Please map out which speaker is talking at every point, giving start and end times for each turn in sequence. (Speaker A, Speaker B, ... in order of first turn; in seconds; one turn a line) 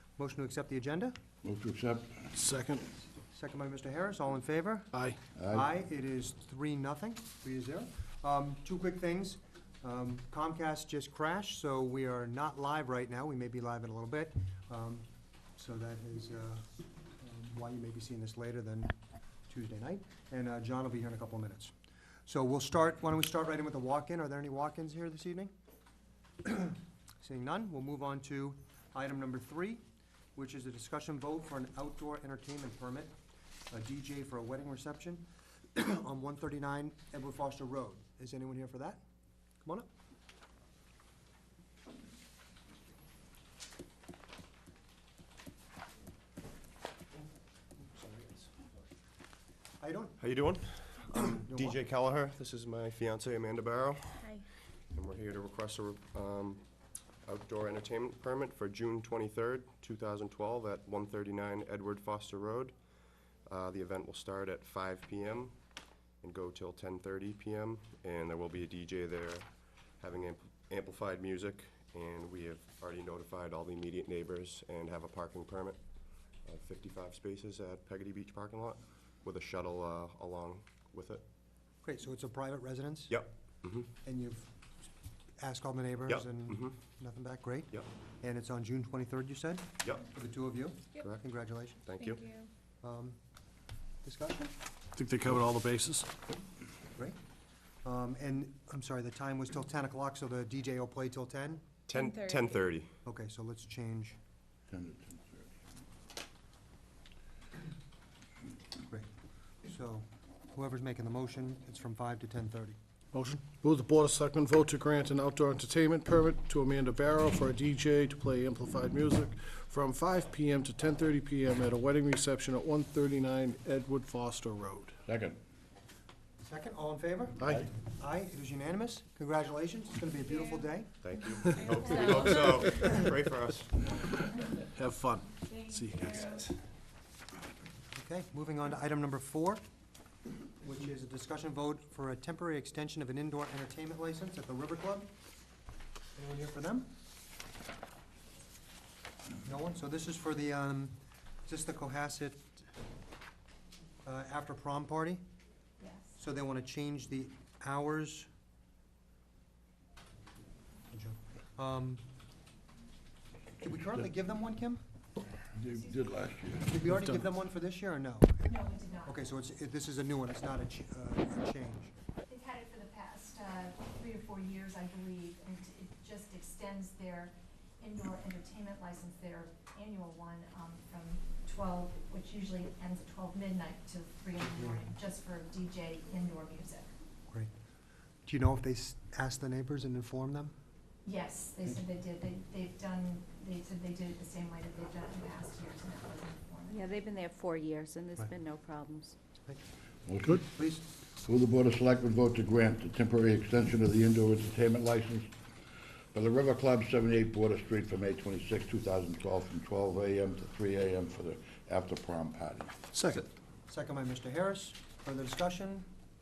Speaker A: 0.2-1.2
Speaker B: 1.4-2.3
Speaker C: 2.3-2.9
Speaker A: 3.3-4.9
Speaker C: 4.9-5.2
Speaker B: 5.4-5.7
Speaker A: 5.5-16.6
Speaker A: 17.2-18.9
Speaker A: 19.5-21.7
Speaker A: 22.3-25.5
Speaker A: 26.4-29.8
Speaker A: 30.4-33.1
Speaker A: 33.7-39.0
Speaker D: 48.0-48.5
Speaker A: 49.8-50.2
Speaker D: 50.2-54.4
Speaker A: 51.1-51.8
Speaker D: 54.9-56.6
Speaker D: 57.2-62.7
Speaker D: 63.5-65.5
Speaker D: 66.2-69.5
Speaker D: 70.0-75.8
Speaker D: 76.5-81.2
Speaker A: 81.8-83.2
Speaker D: 83.1-83.9
Speaker A: 84.0-84.5
Speaker A: 85.4-91.8
Speaker D: 86.1-86.8
Speaker D: 91.8-92.3
Speaker A: 92.8-93.2
Speaker A: 94.0-94.5
Speaker C: 95.0-96.1
Speaker A: 97.8-101.6
Speaker D: 101.9-102.9
Speaker A: 103.0-104.2
Speaker B: 104.7-105.5
Speaker A: 109.6-112.8
Speaker C: 113.1-125.0
Speaker B: 125.1-125.4
Speaker A: 126.4-130.9
Speaker C: 127.4-127.7
Speaker D: 131.0-134.3
Speaker E: 131.8-132.1
Speaker A: 131.9-132.3
Speaker C: 132.2-132.7
Speaker C: 134.6-136.5
Speaker A: 137.9-139.6
Speaker A: 140.6-145.1
Speaker A: 146.1-146.9
Speaker A: 149.4-152.6
Speaker A: 154.0-155.2
Speaker F: 155.8-156.2
Speaker A: 156.2-158.3
Speaker A: 160.9-162.0
Speaker A: 163.6-164.8
Speaker B: 165.5-166.8
Speaker A: 166.6-171.9
Speaker C: 166.9-167.3
Speaker F: 168.4-169.3
Speaker F: 172.3-186.9
Speaker A: 184.4-184.8
Speaker A: 188.2-190.5
Speaker F: 191.0-196.8
Speaker E: 196.7-199.2
Speaker B: 200.1-200.4
Speaker A: 200.4-200.8
Speaker B: 201.2-205.3
Speaker B: 206.1-212.8
Speaker C: 212.9-213.2
Speaker A: 213.7-215.9